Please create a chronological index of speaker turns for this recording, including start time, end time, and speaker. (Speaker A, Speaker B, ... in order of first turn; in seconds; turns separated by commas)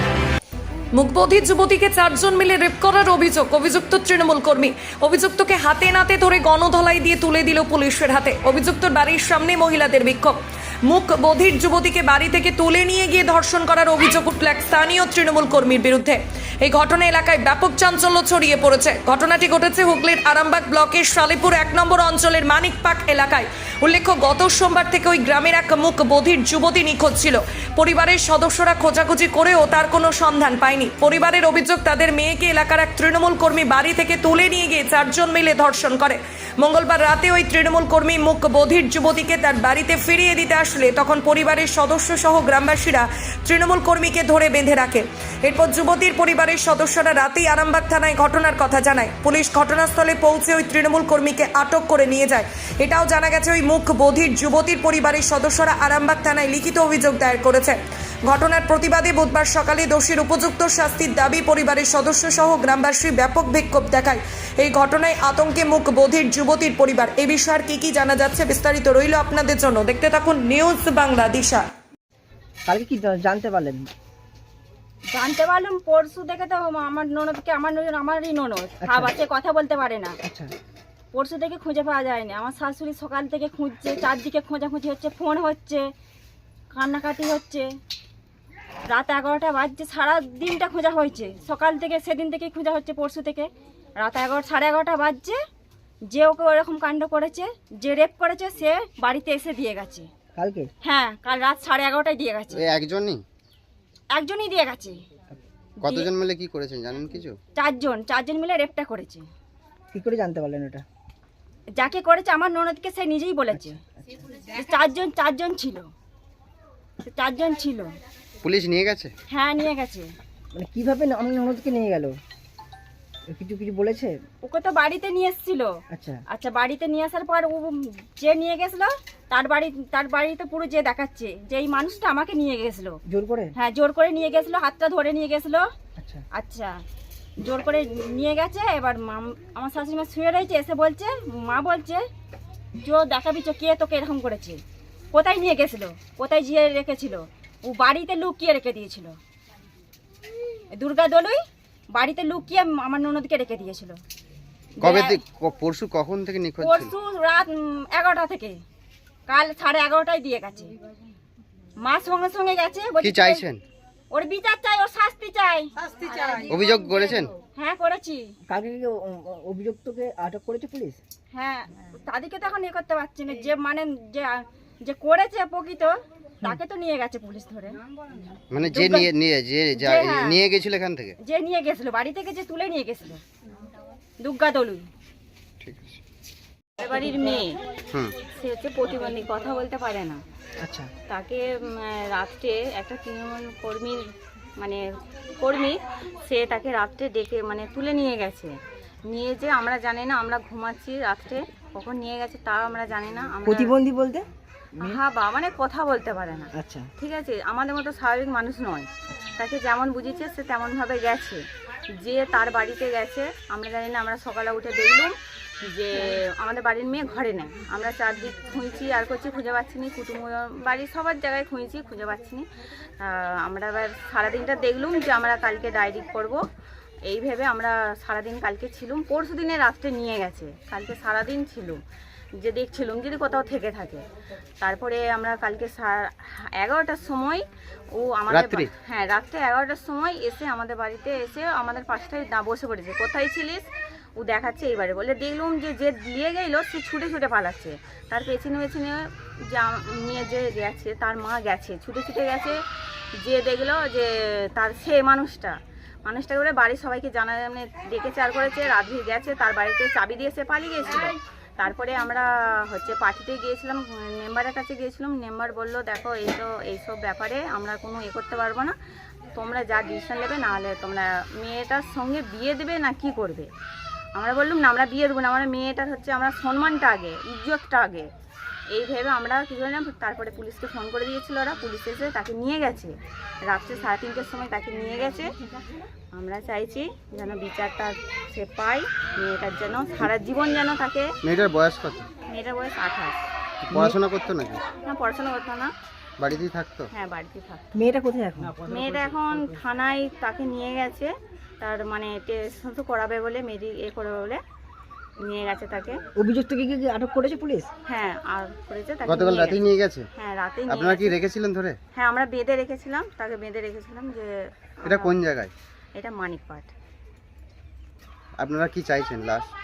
Speaker A: 0.9-71.7, Speaker B: 72.7-73.9, Speaker C: 75.1-80.2, Speaker B: 78.8-79.1, Speaker B: 80.2-80.5, Speaker C: 81.1-85.9, Speaker C: 86.7-87.7, Speaker C: 88.9-95.4, Speaker C: 96.1-100.1, Speaker B: 100.3-100.7, Speaker C: 100.8-102.6, Speaker D: 102.5-103.2, Speaker C: 104.2-104.9, Speaker D: 105.8-107.4, Speaker C: 105.8-106.1, Speaker C: 107.6-109.3, Speaker B: 109.9-110.8, Speaker C: 111.7-113.8, Speaker B: 113.5-114.2, Speaker C: 114.5-115.9, Speaker C: 117.1-117.9, Speaker D: 118.4-119.1, Speaker C: 119.3-120.1, Speaker B: 120.5-122.1, Speaker B: 123.3-124.2, Speaker C: 124.4-125.7, Speaker B: 125.9-126.2, Speaker C: 126.3-133.0, Speaker B: 133.1-133.5, Speaker C: 133.6-135.7, Speaker B: 136.0-136.2, Speaker C: 136.3-136.8, Speaker C: 137.4-142.0, Speaker C: 142.8-144.6, Speaker C: 145.1-149.2, Speaker C: 150.7-151.4, Speaker C: 151.9-154.0, Speaker C: 154.8-155.2, Speaker D: 154.8-156.9, Speaker C: 156.6-158.6, Speaker C: 159.3-160.7, Speaker C: 161.8-163.4, Speaker D: 163.0-163.6, Speaker C: 164.1-165.7, Speaker D: 166.5-167.3, Speaker C: 167.6-168.3, Speaker B: 168.5-171.0, Speaker C: 171.3-177.8, Speaker D: 178.5-181.2, Speaker C: 178.7-179.1, Speaker C: 179.8-180.4, Speaker C: 181.2-183.2, Speaker C: 184.2-184.9, Speaker D: 185.6-186.0, Speaker E: 186.8-187.6, Speaker E: 188.3-190.2, Speaker B: 190.6-190.9, Speaker E: 191.1-194.1, Speaker E: 194.6-194.8, Speaker E: 195.4-198.6, Speaker E: 199.1-203.7, Speaker B: 203.4-204.3, Speaker E: 204.8-211.4, Speaker B: 206.5-206.9, Speaker E: 212.0-215.1, Speaker E: 215.6-222.5, Speaker E: 223.0-226.4, Speaker E: 227.1-231.8, Speaker E: 232.4-234.0, Speaker E: 234.6-252.6, Speaker D: 238.3-238.7, Speaker E: 253.2-255.6, Speaker E: 256.1-268.7, Speaker E: 269.3-273.5, Speaker E: 274.2-278.1, Speaker E: 278.7-285.3, Speaker E: 286.1-291.1, Speaker D: 291.2-292.1, Speaker E: 292.3-293.2, Speaker D: 293.7-294.6, Speaker E: 294.9-295.7, Speaker D: 296.2-296.9, Speaker E: 296.9-297.6, Speaker B: 297.8-298.6, Speaker E: 298.7-304.4, Speaker E: 305.2-306.0, Speaker B: 306.2-307.7, Speaker E: 307.9-311.2, Speaker D: 309.1-310.1, Speaker D: 310.7-311.8, Speaker E: 311.9-315.2, Speaker D: 314.9-315.5, Speaker E: 315.9-316.7, Speaker D: 318.4-319.5